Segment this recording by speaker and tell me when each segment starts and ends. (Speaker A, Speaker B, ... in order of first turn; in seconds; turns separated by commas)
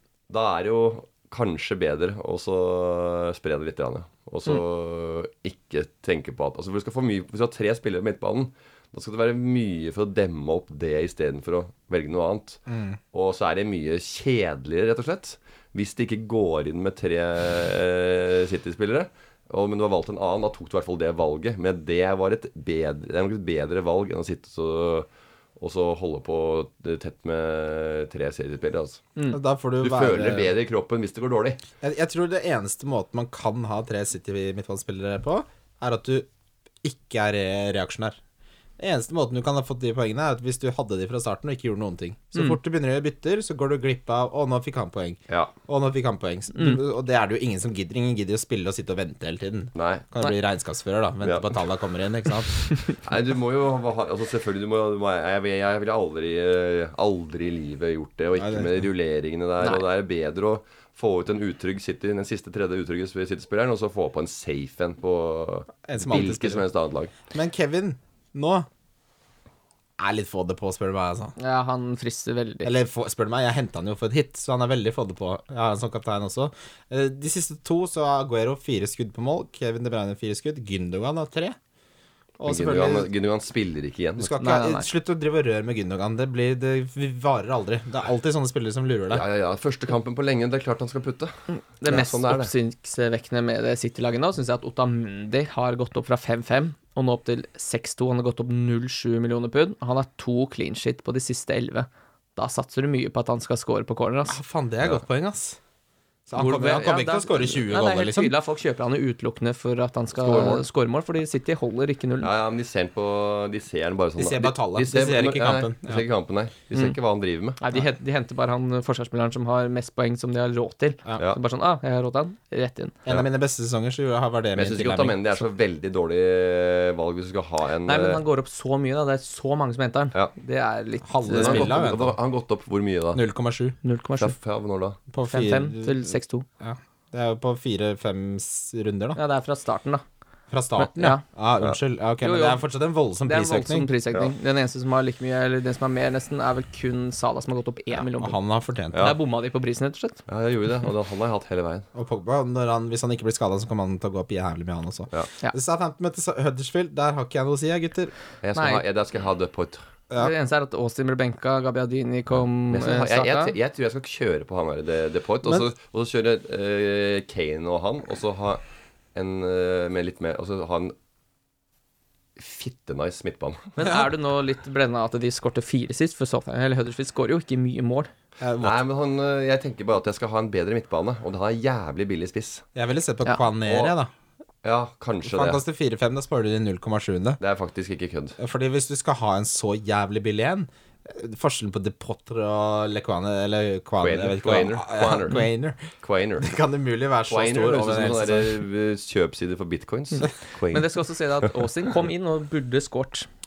Speaker A: 0.3-29.1, Speaker B: 12.7-13.0, Speaker B: 29.3-30.5, Speaker A: 29.8-31.6, Speaker B: 31.8-36.3, Speaker B: 36.8-38.2, Speaker B: 38.8-52.6, Speaker A: 45.3-45.5, Speaker C: 46.5-46.8, Speaker A: 49.7-50.0, Speaker A: 51.2-51.5, Speaker A: 53.0-67.1, Speaker B: 58.4-58.7, Speaker B: 65.8-66.6, Speaker B: 67.3-68.7, Speaker B: 70.0-71.3, Speaker C: 71.4-72.7, Speaker B: 72.6-81.5, Speaker B: 82.4-83.1, Speaker A: 82.5-84.3, Speaker B: 84.2-89.2, Speaker C: 84.4-84.9, Speaker A: 89.1-91.3, Speaker C: 91.5-104.4, Speaker A: 91.8-92.5, Speaker B: 104.3-105.6, Speaker B: 106.3-108.3, Speaker C: 106.4-112.3, Speaker A: 110.2-110.6, Speaker A: 112.2-117.6, Speaker B: 114.2-116.0, Speaker C: 117.6-123.0, Speaker B: 123.0-125.2, Speaker A: 124.5-128.2, Speaker C: 127.8-131.8, Speaker B: 131.1-132.2, Speaker A: 131.3-133.2, Speaker B: 133.1-133.8, Speaker C: 133.8-134.3, Speaker A: 134.2-135.0, Speaker B: 135.1-139.2, Speaker C: 135.2-136.4, Speaker C: 139.2-140.0, Speaker B: 140.5-143.9, Speaker C: 140.8-141.2, Speaker C: 142.2-142.6, Speaker C: 143.2-148.4, Speaker B: 148.1-149.1, Speaker A: 148.9-149.2, Speaker C: 149.0-150.2, Speaker A: 150.3-151.8, Speaker B: 151.9-158.1, Speaker A: 158.4-159.8, Speaker C: 158.5-158.8, Speaker C: 160.2-163.5, Speaker A: 162.7-168.6, Speaker A: 169.1-170.9, Speaker A: 172.4-173.7, Speaker C: 173.8-178.1, Speaker B: 178.4-178.8, Speaker A: 178.6-182.6, Speaker B: 182.7-184.1, Speaker A: 183.6-183.9, Speaker A: 184.6-185.6, Speaker B: 185.2-187.4, Speaker A: 187.4-188.3, Speaker B: 188.4-195.8, Speaker A: 194.0-195.4, Speaker A: 196.0-196.5, Speaker B: 196.4-198.5, Speaker A: 197.3-201.5, Speaker C: 200.7-203.3